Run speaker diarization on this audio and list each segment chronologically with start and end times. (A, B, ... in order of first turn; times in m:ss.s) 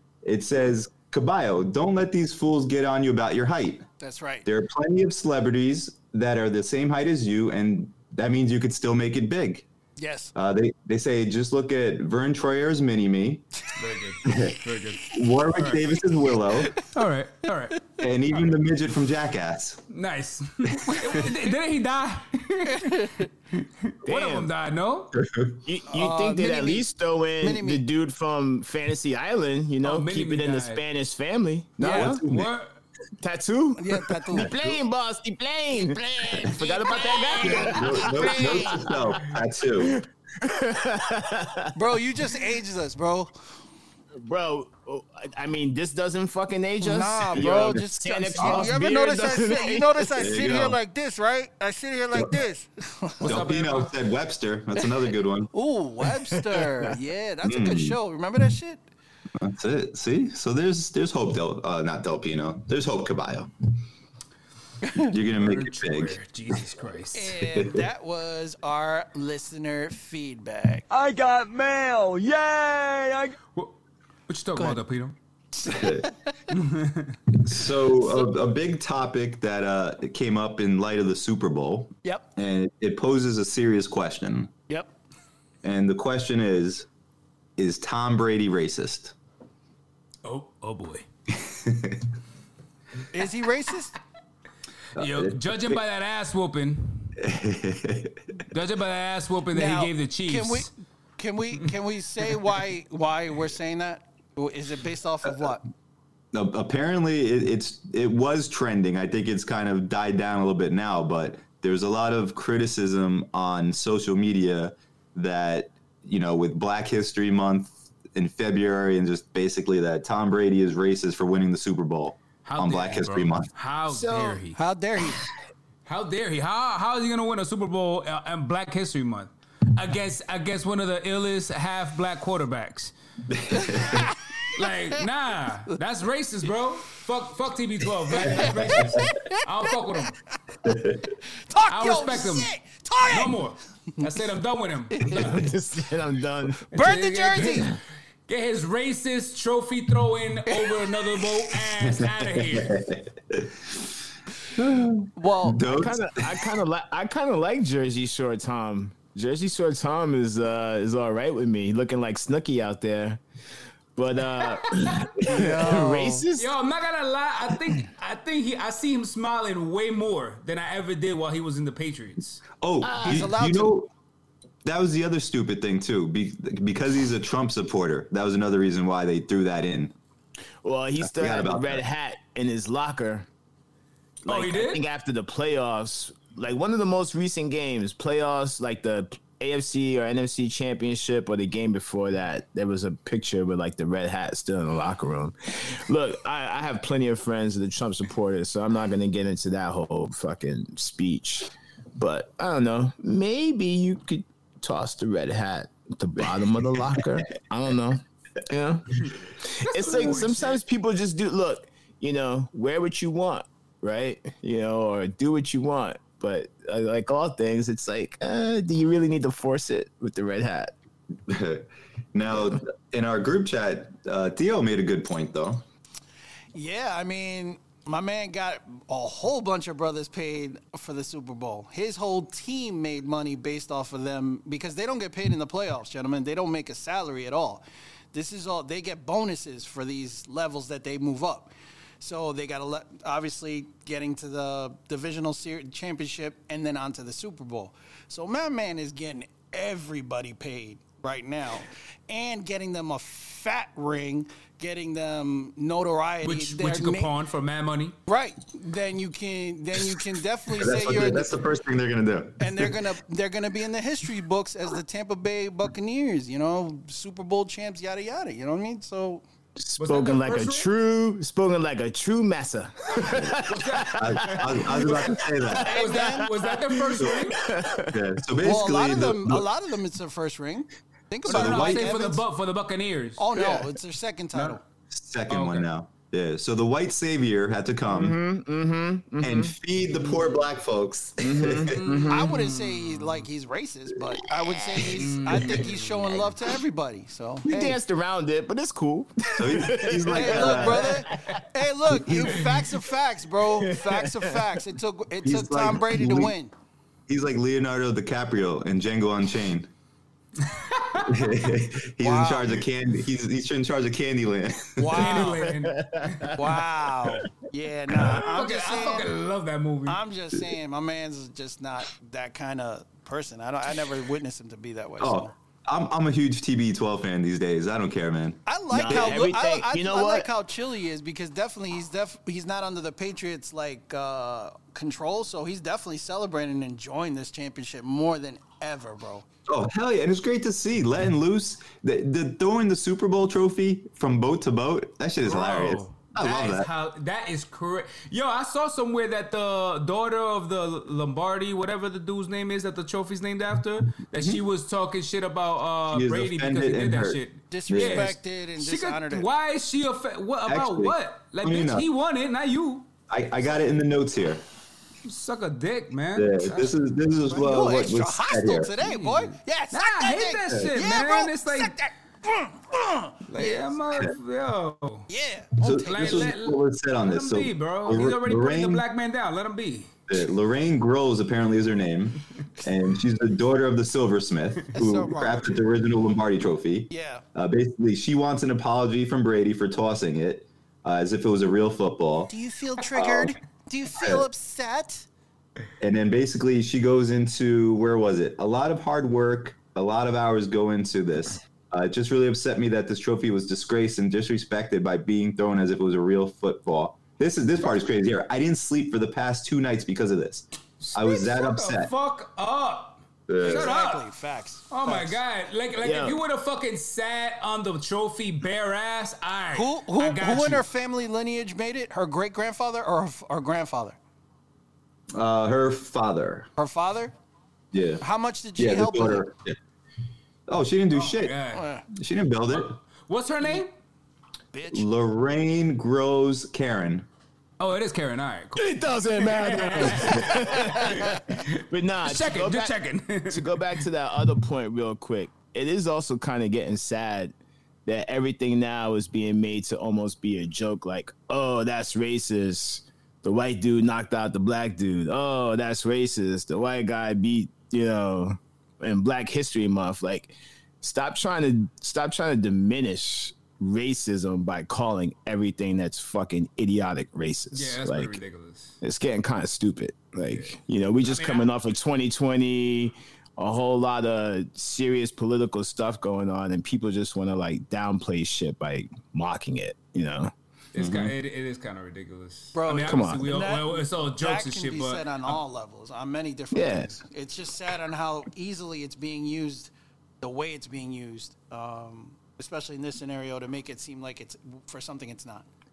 0:00.2-0:03.8 A
0:04.0-0:04.4 B
0:04.4-0:09.6 A
0:10.0-0:10.3 B
0:10.3-0:13.4 A
0:13.8-0:15.8 C
0:14.2-0:14.6 A
0:15.1-0:16.8 A
0:16.8-0:18.4 C
0:18.0-0:19.8 A
0:19.9-0:25.2 C
0:20.7-0:21.2 A
0:22.7-0:23.2 B
0:24.0-0:24.5 D
0:25.1-0:25.6 A
0:25.6-0:32.2 D
0:25.9-0:27.8 B
0:29.8-0:30.8 C
0:31.8-0:32.5 A
0:31.8-0:32.7 C
0:33.2-0:39.2 D
0:33.8-0:34.5 B
0:34.4-0:34.8 A
0:35.7-0:38.7 B
0:37.1-0:37.8 C
0:37.4-0:40.0 A
0:39.7-0:42.0 D
0:41.7-0:43.3 B
0:44.1-0:50.4 D
0:46.8-0:53.8 B
0:47.3-0:47.8 A
0:48.4-0:48.7 A
0:50.2-0:50.8 A
0:53.2-0:55.5 A
0:53.2-0:53.9 C
0:55.5-0:58.9 B
0:56.0-0:56.9 D
0:57.4-0:58.0 A
0:59.4-1:03.5 A
1:04.8-1:05.1 B
1:05.1-1:06.2 A
1:05.3-1:07.4 C
1:07.1-1:10.8 B
1:07.5-1:07.9 A
1:10.9-1:13.4 E
1:14.3-1:15.1 C
1:15.6-1:16.5 B
1:15.6-1:16.1 A
1:16.5-1:17.2 C
1:17.3-1:24.5 A
1:25.6-1:26.9 A
1:27.6-1:29.1 A
1:30.2-1:31.0 C
1:31.4-1:32.0 A
1:33.1-1:33.9 B
1:35.0-1:35.8 A
1:35.0-1:37.2 C
1:37.2-1:38.2 A
1:38.5-1:40.7 C
1:39.5-1:45.6 B
1:46.3-2:03.5 A
2:02.4-2:04.6 C
2:03.9-2:04.2 D
2:04.5-2:05.2 B
2:05.8-2:12.9 C
2:13.3-2:14.1 A
2:13.5-2:14.2 B
2:14.5-2:20.2 C
2:18.1-2:19.5 B
2:18.4-2:19.1 A
2:20.6-2:21.0 A
2:21.5-2:23.4 B
2:21.7-2:22.5 C
2:23.1-2:25.5 C
2:25.0-2:25.3 B
2:25.0-2:26.6 D
2:26.7-2:27.7 B
2:26.7-2:32.8 C
2:30.5-2:30.9 B
2:31.8-2:33.9 A
2:34.5-2:36.4 A
2:35.1-2:35.6 B
2:35.6-2:43.2 D
2:44.0-2:46.5 D
2:44.5-2:45.0 C
2:45.2-2:46.2 B
2:46.4-2:52.4 C
2:52.6-2:53.9 A
2:52.8-2:53.3 D
2:53.0-2:53.8 B
2:54.6-2:59.9 A
3:00.6-3:03.3 D
3:01.0-3:01.8 A
3:04.2-3:40.7 D
3:04.2-3:04.8 C
3:29.6-3:30.6 C
3:41.3-3:45.6 A
3:46.5-3:57.6 B
3:58.1-4:17.1 B
4:16.2-4:18.0 C
4:18.1-4:21.3 B
4:20.5-4:22.7 A
4:22.4-4:29.2 B
4:29.6-4:38.0 D
4:29.8-4:30.7 C
4:33.1-4:37.4 C
4:33.9-4:35.8 A
4:35.6-4:36.3 B
4:37.0-4:37.2 A
4:37.9-4:39.5 A
4:38.4-4:42.2 B
4:41.2-4:42.1 A
4:41.2-4:43.2 C
4:43.2-4:44.6 B
4:43.4-4:43.6 D
4:44.9-4:48.2 A
4:45.3-4:45.7 C
4:47.8-4:49.5 D
4:49.2-4:51.8 A
4:51.2-4:52.4 D
4:51.7-4:53.2 C
4:52.1-4:57.8 B
4:54.4-4:56.3 D
4:55.0-4:55.9 C
4:57.4-5:02.4 D
4:59.4-5:01.1 A
5:00.1-5:06.5 B
5:03.4-5:04.6 D
5:05.2-5:06.3 A
5:07.1-5:09.7 A
5:10.4-5:11.3 C
5:11.0-5:15.1 A
5:12.0-5:12.6 B
5:14.8-5:15.4 B
5:14.9-5:16.4 C
5:15.2-5:16.4 D
5:16.3-5:19.1 B
5:18.0-5:20.0 C
5:19.8-5:25.3 B
5:25.0-5:29.2 A
5:28.4-5:39.2 B
5:28.7-5:30.3 D
5:39.5-5:46.7 A
5:45.2-6:02.9 C
5:55.9-5:58.1 A
5:57.5-5:59.3 B
6:00.5-6:01.8 A
6:03.1-6:04.4 A
6:05.0-6:06.8 C
6:06.1-6:08.7 A
6:07.3-6:13.7 B
6:08.8-6:11.8 C
6:13.3-6:15.1 C
6:15.1-6:16.3 B
6:15.6-6:18.8 A
6:15.8-6:19.9 C
6:20.1-6:32.3 A
6:24.7-6:25.6 B
6:26.9-6:27.2 B
6:32.3-6:35.1 B
6:32.9-6:33.3 A
6:34.0-6:34.3 A
6:35.8-6:51.9 A
6:50.8-6:54.0 C
6:53.3-6:53.7 A
6:53.4-6:55.2 B
6:54.7-7:00.6 C
6:55.8-6:56.2 D
6:59.5-7:04.0 B
7:05.1-7:06.5 A
7:06.6-7:07.1 B
7:07.7-7:08.0 A
7:08.0-7:09.2 B
7:08.6-7:09.6 A
7:10.5-7:11.4 A
7:10.9-7:11.7 C
7:11.5-7:11.8 B
7:11.9-7:12.8 A
7:12.5-7:13.7 C
7:14.5-7:14.9 B
7:14.7-7:17.1 A
7:17.6-7:23.8 C
7:18.6-7:27.3 D
7:20.1-7:21.1 B
7:27.8-7:48.2 D
7:47.5-7:48.8 C
7:48.8-8:00.3 D
7:51.0-7:51.5 C
8:00.7-8:05.4 C
8:00.8-8:01.1 A
8:02.5-8:15.5 B
8:02.8-8:03.2 D
8:06.5-8:06.9 D